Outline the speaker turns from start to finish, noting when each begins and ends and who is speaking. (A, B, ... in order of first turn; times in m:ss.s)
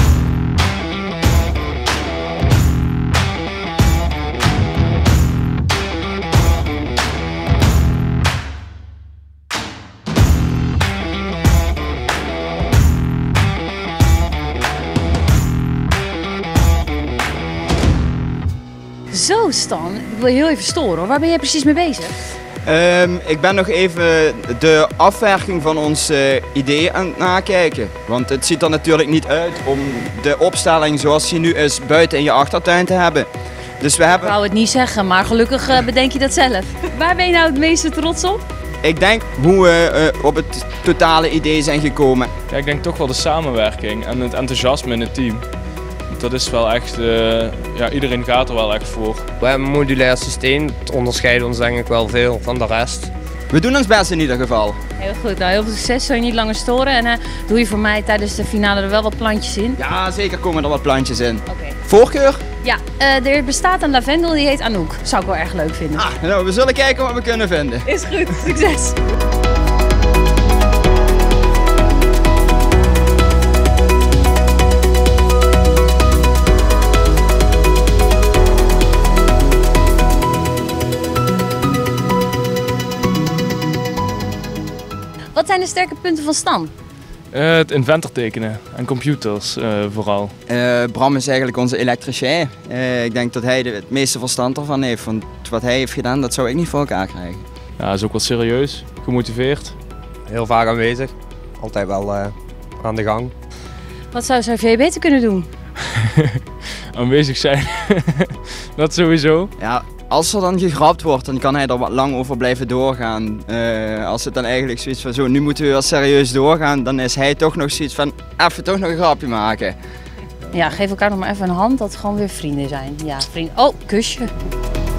0:19.1-0:22.2 A
0:22.6-0:33.3 B
0:33.8-0:34.3 B
0:34.2-0:38.4 A
0:38.8-0:42.3 B
0:42.5-0:45.4 C
0:46.1-0:49.3 C
0:49.4-0:53.1 D
0:53.5-0:54.8 B
0:55.0-0:59.8 A
0:59.8-1:02.4 B
1:01.5-1:01.8 A
1:02.6-1:06.1 A
1:06.0-1:07.8 B
1:07.8-1:09.0 A
1:25.3-1:26.7 A
1:27.3-1:30.3 C
1:30.5-1:37.4 B
1:37.8-1:39.8 C
1:40.3-1:43.3 D
1:44.1-1:45.5 A
1:45.9-1:46.4 C
1:46.9-1:49.5 C
1:49.6-1:59.8 B
2:00.5-2:04.3 A